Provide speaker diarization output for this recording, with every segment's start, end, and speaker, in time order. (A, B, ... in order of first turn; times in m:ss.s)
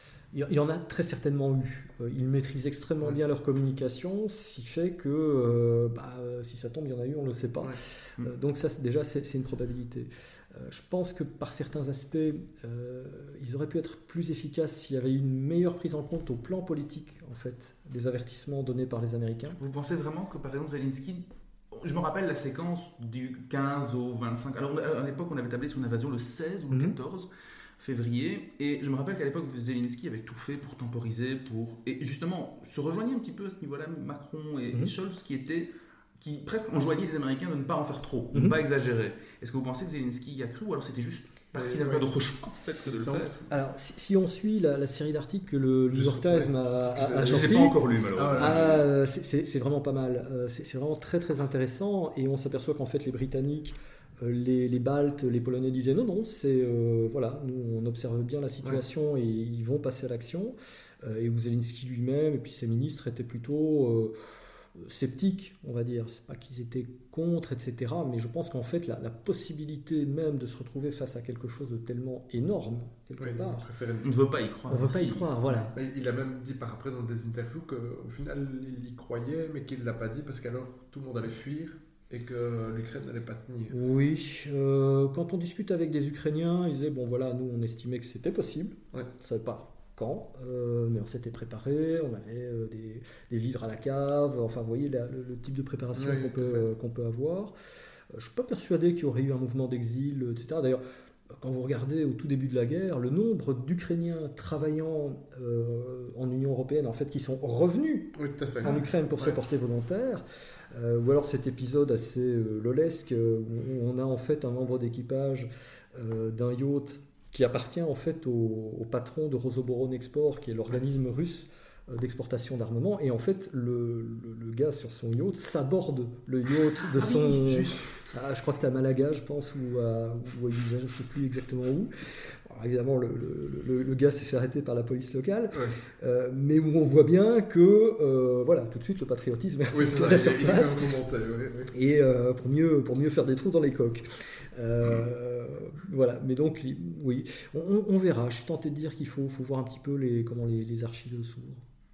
0:00.3-0:19.6 A
0:19.6-0:27.3 B
0:26.7-0:27.0 A
0:27.8-0:43.5 B
0:38.3-0:38.6 A
0:41.6-0:42.1 C
0:42.8-0:43.4 C
0:43.5-0:47.8 A
0:45.9-0:48.8 C
0:47.2-0:48.8 B
0:48.3-1:13.7 A
1:13.2-1:14.3 C
1:14.0-1:15.3 B
1:14.7-1:15.8 A
1:15.5-1:23.8 C
1:23.7-1:37.5 A
1:36.0-1:36.7 C
1:38.1-2:20.9 A
1:48.2-1:49.4 C
2:06.9-2:07.9 C
2:19.7-2:21.7 C
2:21.7-2:31.6 A